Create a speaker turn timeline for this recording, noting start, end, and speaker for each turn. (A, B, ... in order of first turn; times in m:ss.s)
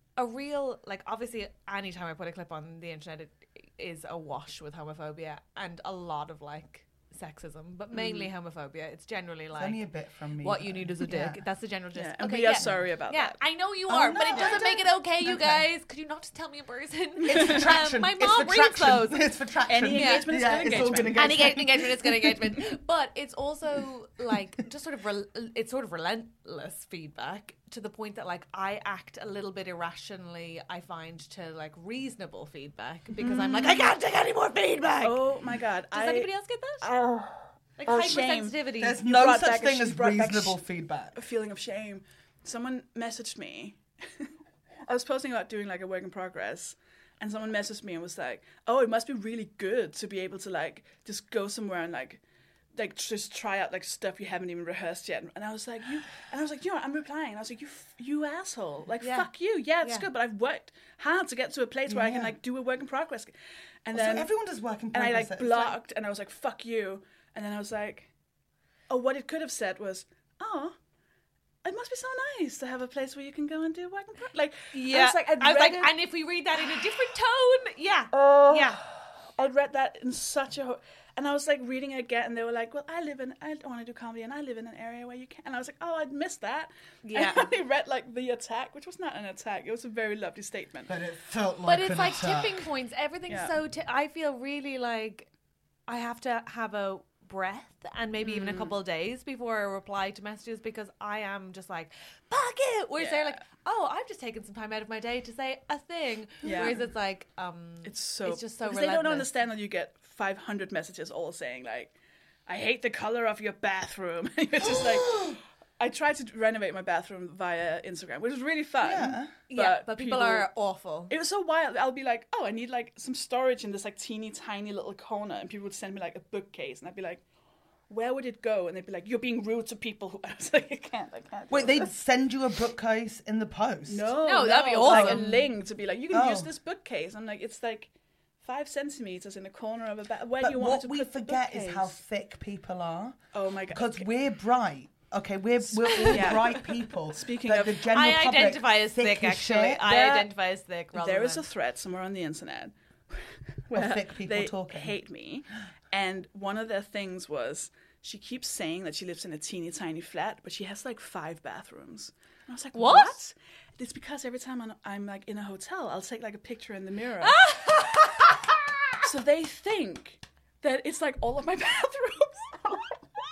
0:00.2-0:09.8 A
0:07.9-0:08.3 B
0:09.6-0:11.4 C
0:10.4-0:19.2 A
0:12.0-0:13.4 B
0:13.9-0:15.6 C
0:14.3-0:14.6 B
0:17.3-0:22.5 C
0:19.7-0:21.5 B
0:19.9-0:20.3 A
0:21.1-0:35.2 A
0:33.2-0:33.9 B
0:35.0-0:36.3 B
0:35.9-0:36.8 A
0:36.8-0:40.6 B
0:37.8-0:39.0 A
0:38.8-0:41.2 C
0:41.2-0:44.3 B
0:44.9-0:52.2 B
0:52.8-1:03.3 B
0:59.0-0:59.3 A
1:01.9-1:02.4 C
1:03.8-1:04.3 B
1:03.9-1:05.8 C
1:04.9-1:08.1 B
1:08.9-1:10.8 B
1:11.6-1:15.9 B
1:14.7-1:18.8 A
1:18.1-1:30.9 B
1:27.0-1:27.5 A
1:30.9-1:32.7 C
1:31.6-1:35.3 A
1:33.3-1:33.5 B
1:35.9-1:49.3 A
1:38.2-1:38.8 B
1:43.0-1:43.4 B
1:46.4-1:46.8 B
1:47.8-1:51.9 B
1:52.5-2:00.5 B
1:54.6-1:55.4 C
1:58.8-1:59.3 C
1:59.5-2:01.2 A
2:01.1-2:07.2 B
2:07.9-2:11.9 B
2:11.5-2:14.1 C
2:13.9-2:17.9 B
2:14.2-2:15.5 A
2:14.8-2:15.4 C
2:16.1-2:16.5 C
2:18.4-2:22.0 B
2:20.4-2:23.2 C
2:23.3-2:24.1 B
2:23.7-2:29.9 C
2:25.9-2:26.4 A
2:26.0-2:27.9 B
2:27.9-2:31.4 A
2:29.8-2:30.3 B
2:30.9-2:47.4 B
2:33.7-2:35.0 C
2:42.7-2:43.2 A
2:47.2-2:48.4 A
2:49.0-2:52.9 B